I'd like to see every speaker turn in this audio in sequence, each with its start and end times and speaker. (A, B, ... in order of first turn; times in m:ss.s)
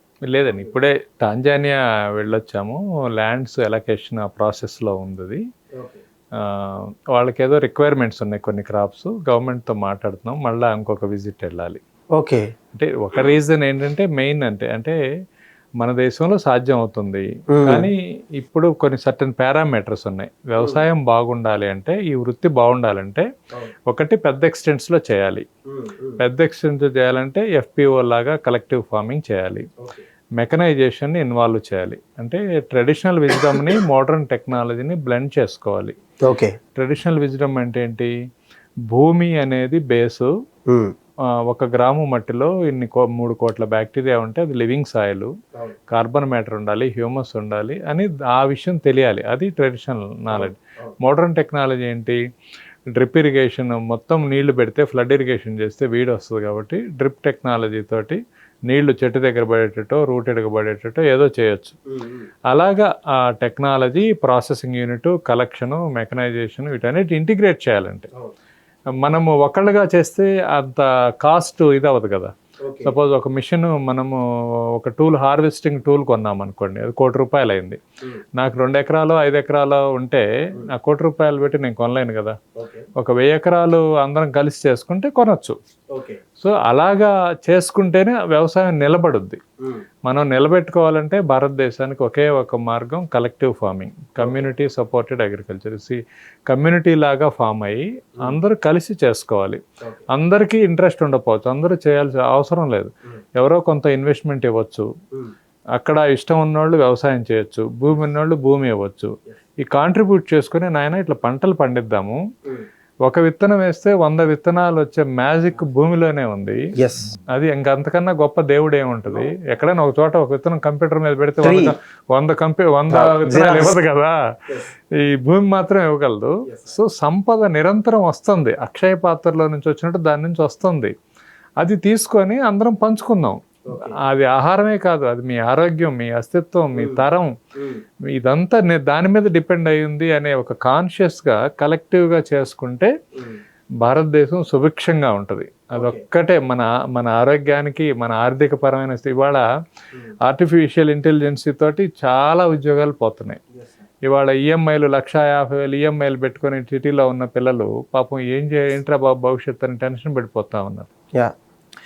0:00.2-0:05.4 A
0:06.5-0:11.8 A
0:12.1-0:12.4 B
0:12.7-0:15.0 A
0:15.8-0:23.2 A
0:17.6-0:17.9 B
0:23.9-0:25.4 A
0:25.7-0:26.2 B
0:26.2-0:29.7 A
0:30.4-0:35.9 A
0:36.2-0:36.6 B
0:36.8-0:38.1 A
0:38.9-0:40.3 A
0:41.5-0:45.3 A
0:45.9-0:52.2 A
0:50.3-0:50.9 B
0:52.9-1:01.8 A
1:01.9-1:02.3 B
1:02.5-1:08.1 A
1:09.0-1:12.3 A
1:12.6-1:12.9 B
1:12.8-1:14.2 A
1:14.8-1:17.8 A
1:18.4-1:22.4 A
1:22.6-1:22.8 B
1:23.0-1:25.6 A
1:25.9-1:26.2 B
1:26.4-1:29.4 A
1:30.0-1:36.0 A
1:34.2-1:34.4 B
1:36.5-1:44.9 A
1:45.7-1:52.2 A
1:53.0-1:56.6 A
1:56.8-1:57.1 B
1:57.3-2:04.1 A
2:01.4-2:01.7 B
2:02.9-2:03.8 B
2:05.0-2:10.9 A
2:11.6-2:13.4 A
2:13.7-2:13.9 B
2:14.0-2:17.3 A
2:16.8-2:17.0 B
2:18.2-2:22.9 A
2:23.8-2:29.4 A
2:25.8-2:26.0 B
2:30.2-2:33.4 A
2:34.0-2:40.9 A